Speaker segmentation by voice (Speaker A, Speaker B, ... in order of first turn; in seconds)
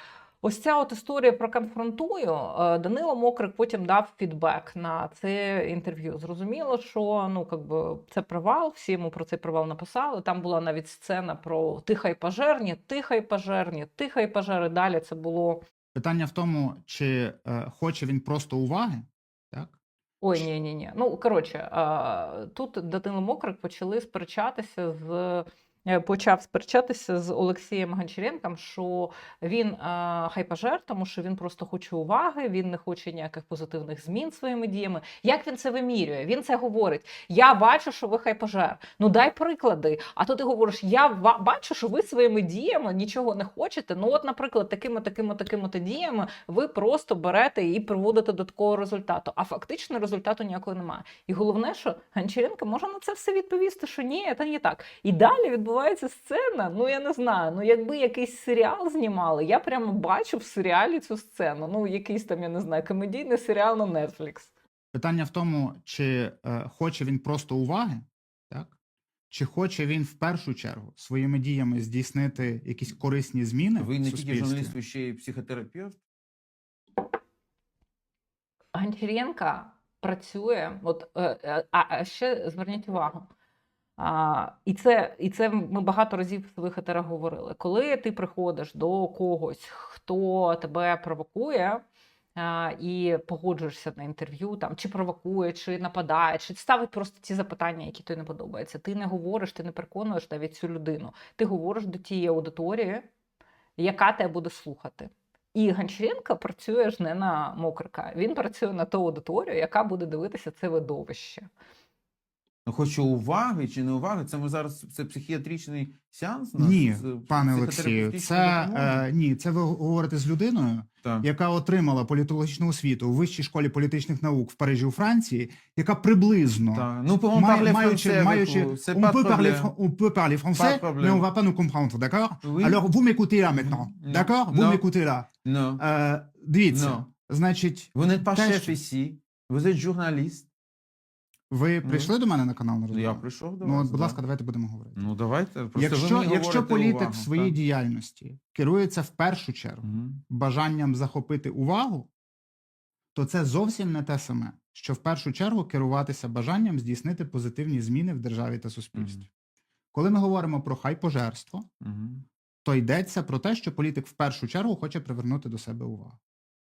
Speaker A: 0.4-15.6, 20.2-64.5, 78.7-83.3, 84.0-91.8, 92.4-103.1, 103.8-111.5
Speaker B: 15.9-19.8, 64.9-68.7, 69.3-74.8, 116.6-138.8, 141.5-145.1, 145.8-152.1, 153.2-159.3, 159.9-161.7, 162.6-166.2
Speaker C: 73.8-76.0, 112.7-119.0, 126.7-129.7, 130.5-131.2, 132.4-132.8, 133.5-134.8, 135.4-135.8, 136.7-137.1, 137.9-140.5, 141.8-142.1, 142.9-144.2, 145.0-147.6, 149.8-150.2, 158.9-159.2, 161.8-162.2